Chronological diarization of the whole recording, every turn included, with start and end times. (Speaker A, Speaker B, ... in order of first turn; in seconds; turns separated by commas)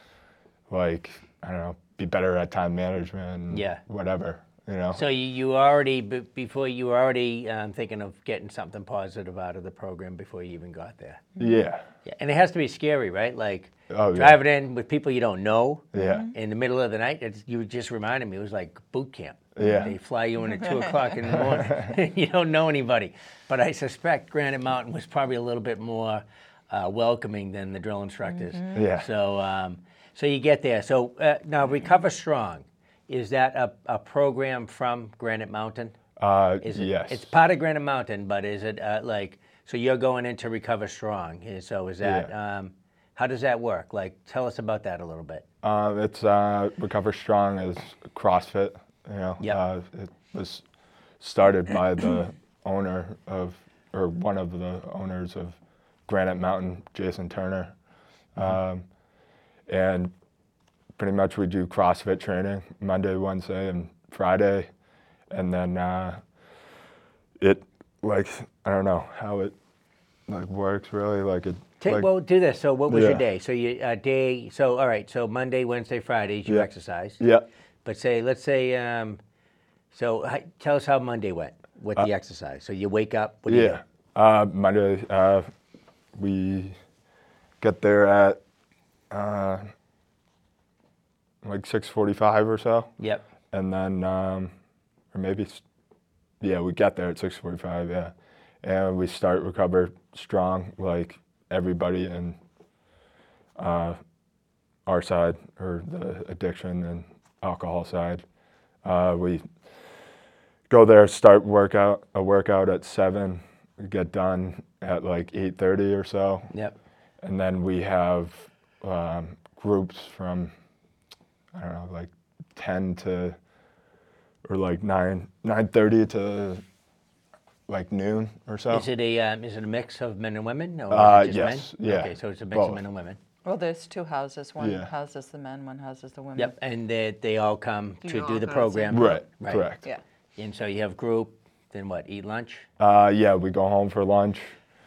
Speaker A: 0.7-5.0, Speaker B: 3.5-3.8, Speaker B: 4.9-11.2, Speaker A: 11.4-11.9, Speaker B: 12.1-36.0, Speaker A: 13.9-14.4, Speaker A: 15.9-16.3, Speaker C: 16.0-16.3, Speaker A: 19.6-19.9, Speaker C: 19.6-19.9, Speaker C: 20.6-21.0, Speaker A: 21.4-21.9, Speaker C: 28.3-28.8, Speaker A: 28.7-29.1, Speaker A: 36.2-37.3, Speaker B: 36.6-45.4, Speaker A: 42.0-42.3, Speaker A: 45.6-50.6, Speaker A: 51.2-57.7, Speaker A: 58.4-58.9, Speaker A: 59.7-60.1, Speaker A: 61.0-64.7, Speaker A: 65.3-66.2, Speaker A: 67.4-69.5, Speaker A: 70.3-72.1, Speaker B: 71.8-77.2, Speaker A: 72.9-73.2, Speaker A: 77.2-77.5, Speaker B: 77.8-79.2, Speaker B: 79.9-83.8, Speaker A: 83.5-85.5, Speaker A: 86.2-86.8, Speaker A: 87.6-88.4, Speaker A: 89.1-89.7, Speaker A: 91.4-92.9, Speaker B: 93.0-93.2, Speaker A: 93.5-94.5, Speaker A: 95.1-95.6, Speaker A: 96.4-102.4, Speaker A: 103.6-104.0, Speaker A: 104.9-108.2, Speaker A: 108.8-109.5, Speaker A: 110.7-116.5, Speaker A: 117.2-120.5, Speaker A: 121.5-123.4, Speaker A: 124.5-126.6, Speaker A: 127.7-128.9, Speaker B: 128.7-133.2, Speaker A: 130.9-132.8, Speaker C: 133.4-136.6, Speaker A: 134.6-134.9, Speaker B: 136.4-139.7, Speaker C: 138.0-139.2, Speaker A: 138.9-139.8, Speaker B: 140.4-142.7, Speaker A: 142.8-144.5